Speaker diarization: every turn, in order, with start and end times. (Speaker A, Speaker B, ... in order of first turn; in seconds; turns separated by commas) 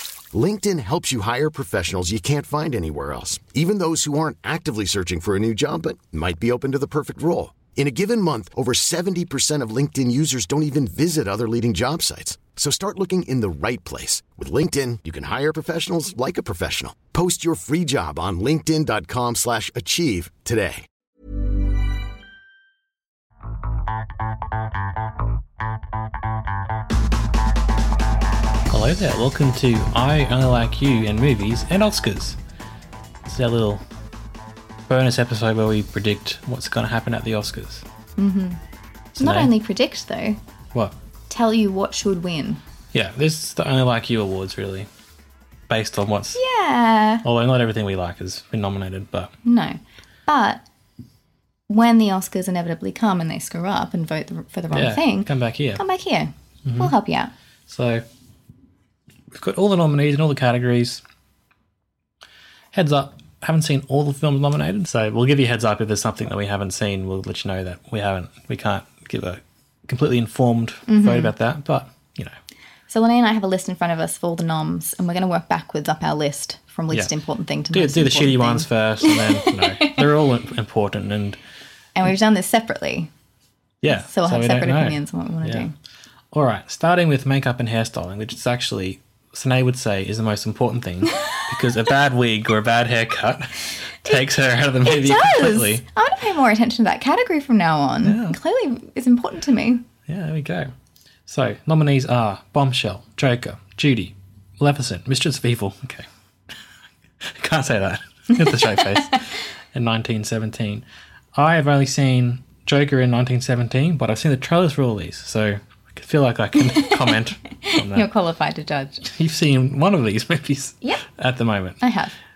Speaker A: 0.3-20.9, Speaker B: 28.7-32.4, Speaker B: 33.3-33.8, Speaker B: 34.9-37.9, Speaker C: 38.2-38.6, Speaker B: 39.2-39.5, Speaker C: 39.2-40.4, Speaker C: 41.3-42.6, Speaker B: 42.9-44.9, Speaker B: 45.7-46.4, Speaker C: 46.4-47.2, Speaker B: 47.2-49.3, Speaker C: 49.4-50.6, Speaker C: 51.7-57.3, Speaker B: 54.7-55.8, Speaker B: 56.6-56.9, Speaker B: 57.7-58.1, Speaker B: 59.3-61.0, Speaker B: 62.7-72.3, Speaker C: 70.9-71.3, Speaker C: 72.9-80.1, Speaker B: 77.7-81.4, Speaker C: 82.0-83.1, Speaker B: 83.8-85.7, Speaker C: 83.9-85.7, Speaker B: 86.3-95.8, Speaker C: 94.8-99.8, Speaker B: 98.0-98.4, Speaker B: 100.1-100.7, Speaker B: 101.3-106.1, Speaker B: 107.2-118.1, Speaker C: 116.6-119.1, Speaker B: 119.0-121.8, Speaker C: 121.8-122.1